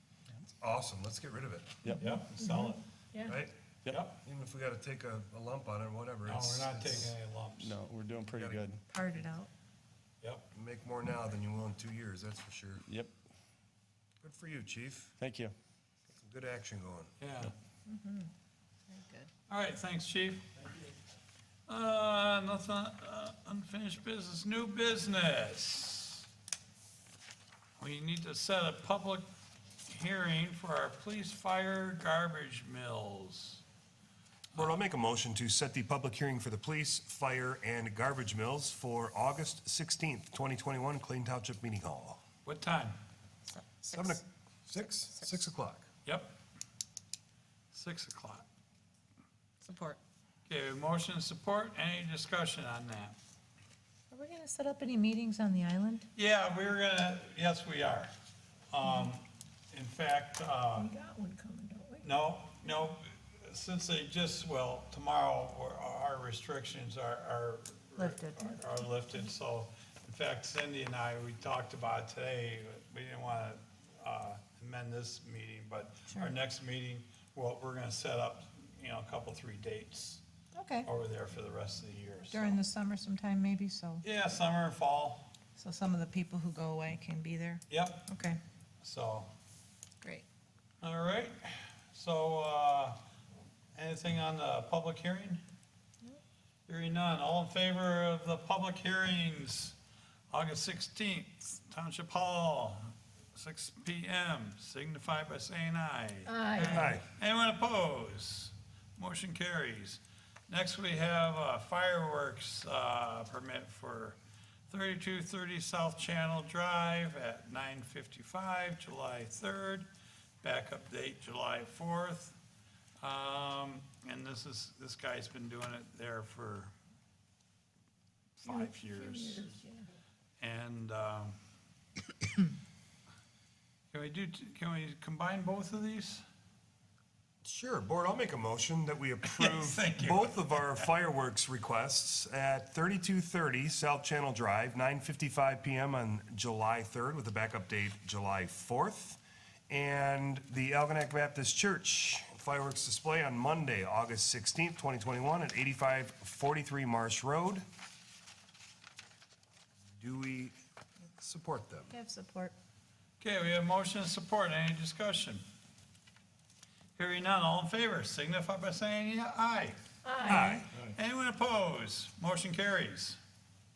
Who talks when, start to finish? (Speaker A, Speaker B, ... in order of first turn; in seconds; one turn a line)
Speaker A: 0.6-1.8
Speaker B: 2.0-2.8
Speaker C: 2.4-3.3
Speaker A: 3.2-3.5
Speaker B: 3.9-4.2
Speaker A: 4.1-7.1
Speaker B: 6.3-7.8
Speaker D: 7.6-8.8
Speaker C: 8.9-9.5
Speaker A: 10.5-12.8
Speaker D: 12.8-13.1
Speaker A: 14.2-15.1
Speaker D: 15.2-15.5
Speaker A: 16.1-17.1
Speaker B: 17.2-17.5
Speaker C: 17.9-18.3
Speaker C: 18.9-19.3
Speaker B: 19.5-20.7
Speaker B: 21.7-26.3
Speaker B: 27.8-29.3
Speaker B: 29.9-33.6
Speaker A: 34.5-42.2
Speaker B: 42.5-43.0
Speaker C: 43.5-44.2
Speaker A: 43.9-45.9
Speaker B: 46.0-46.4
Speaker B: 47.7-48.5
Speaker C: 49.6-50.0
Speaker B: 50.5-53.2
Speaker C: 54.1-56.1
Speaker B: 56.1-58.1
Speaker B: 58.7-60.9
Speaker C: 60.8-62.1
Speaker B: 62.0-80.2
Speaker C: 68.0-68.7
Speaker C: 80.5-80.9
Speaker B: 80.8-82.6
Speaker C: 82.3-84.0
Speaker B: 84.0-85.3
Speaker C: 85.6-88.4
Speaker B: 87.7-88.1
Speaker B: 88.8-89.3
Speaker B: 90.8-93.0
Speaker B: 93.8-95.4
Speaker B: 96.7-99.8
Speaker B: 100.3-114.2
Speaker C: 106.3-106.9
Speaker A: 106.6-107.0
Speaker B: 114.7-119.9
Speaker B: 120.4-122.4
Speaker B: 123.0-126.7
Speaker B: 128.4-129.6
Speaker C: 128.5-129.8
Speaker B: 130.4-131.4
Speaker B: 133.9-136.2
Speaker A: 137.4-157.7
Speaker B: 139.2-140.5
Speaker A: 160.0-160.6
Speaker A: 161.2-161.9
Speaker C: 161.9-162.5
Speaker B: 163.2-165.4
Speaker B: 167.0-169.8
Speaker C: 170.1-170.6
Speaker A: 170.2-170.8
Speaker B: 170.5-173.2